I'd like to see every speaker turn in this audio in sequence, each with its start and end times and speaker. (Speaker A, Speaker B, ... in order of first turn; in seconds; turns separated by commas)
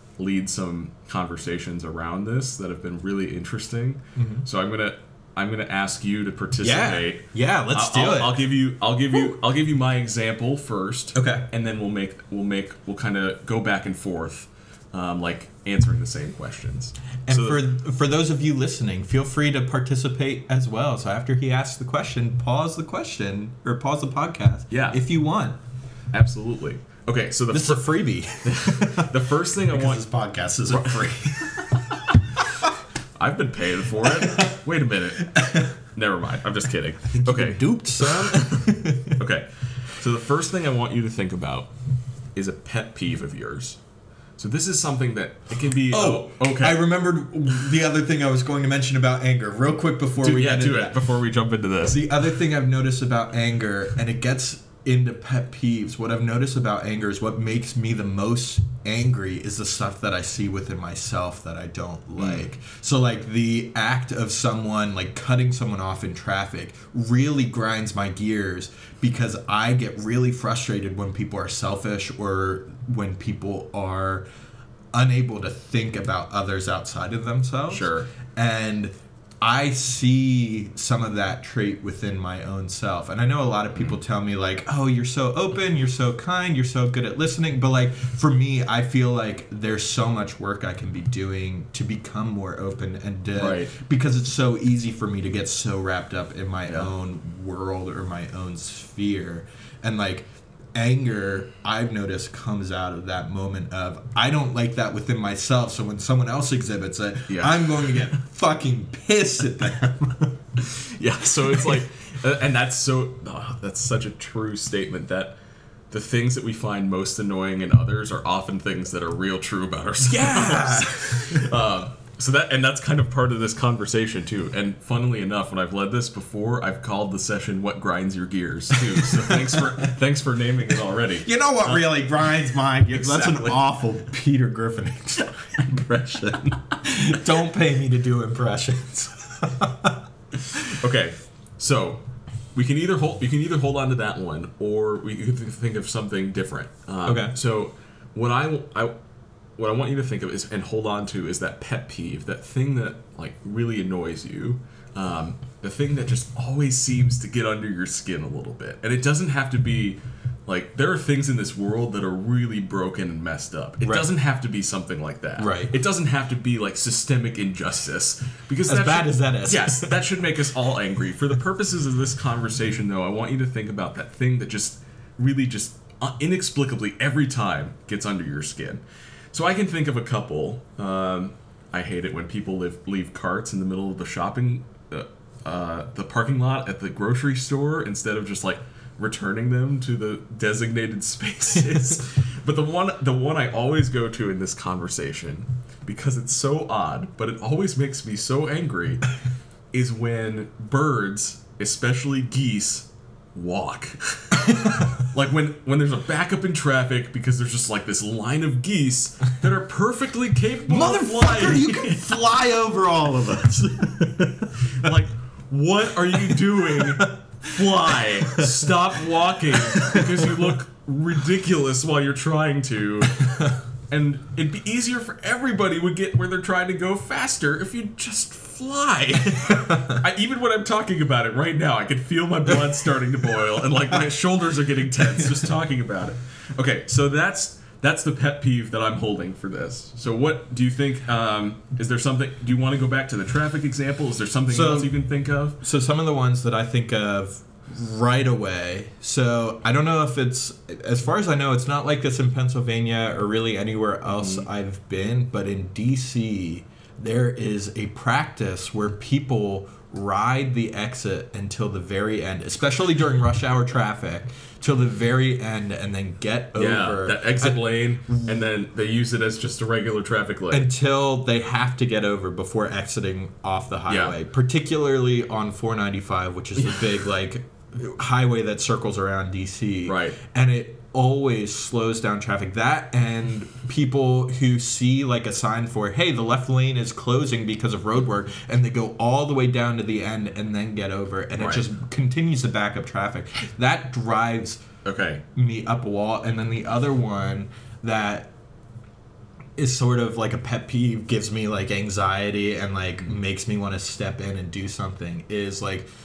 Speaker A: 0.2-17.6, Speaker B: 4.2-4.5, Speaker B: 6.6-8.4, Speaker B: 11.2-11.5, Speaker B: 17.3-25.6, Speaker A: 24.7-25.0, Speaker A: 26.1-30.0, Speaker B: 27.5-32.0, Speaker A: 30.6-32.2, Speaker A: 33.2-38.6, Speaker B: 34.0-34.6, Speaker B: 35.3-35.7, Speaker B: 37.1-39.2, Speaker A: 39.1-41.8, Speaker A: 42.4-43.8, Speaker A: 44.4-46.9, Speaker B: 45.9-51.0, Speaker A: 50.2-52.0, Speaker B: 51.8-74.2, Speaker A: 62.2-62.5, Speaker B: 74.9-110.4, Speaker A: 77.7-78.1, Speaker A: 93.4-93.7, Speaker A: 107.3-108.1, Speaker A: 110.6-115.4, Speaker A: 115.9-131.9, Speaker B: 120.0-121.5, Speaker B: 128.8-129.9, Speaker B: 131.2-140.0, Speaker A: 132.9-133.6, Speaker A: 140.7-149.0, Speaker B: 147.1-147.3, Speaker A: 149.6-199.1, Speaker B: 165.4-165.7, Speaker B: 168.7-170.0, Speaker A: 199.7-212.2, Speaker B: 204.5-204.9, Speaker B: 210.7-214.9, Speaker A: 214.7-245.6, Speaker B: 216.3-218.6, Speaker B: 219.5-220.4, Speaker B: 229.5-230.0, Speaker B: 244.5-245.0, Speaker B: 245.6-268.3, Speaker A: 254.1-254.4, Speaker A: 266.6-270.7, Speaker B: 270.5-294.6, Speaker A: 273.9-274.2, Speaker A: 276.6-277.0, Speaker A: 279.9-280.2, Speaker A: 291.4-291.6, Speaker A: 294.9-295.2, Speaker B: 295.3-298.3, Speaker B: 299.6-305.9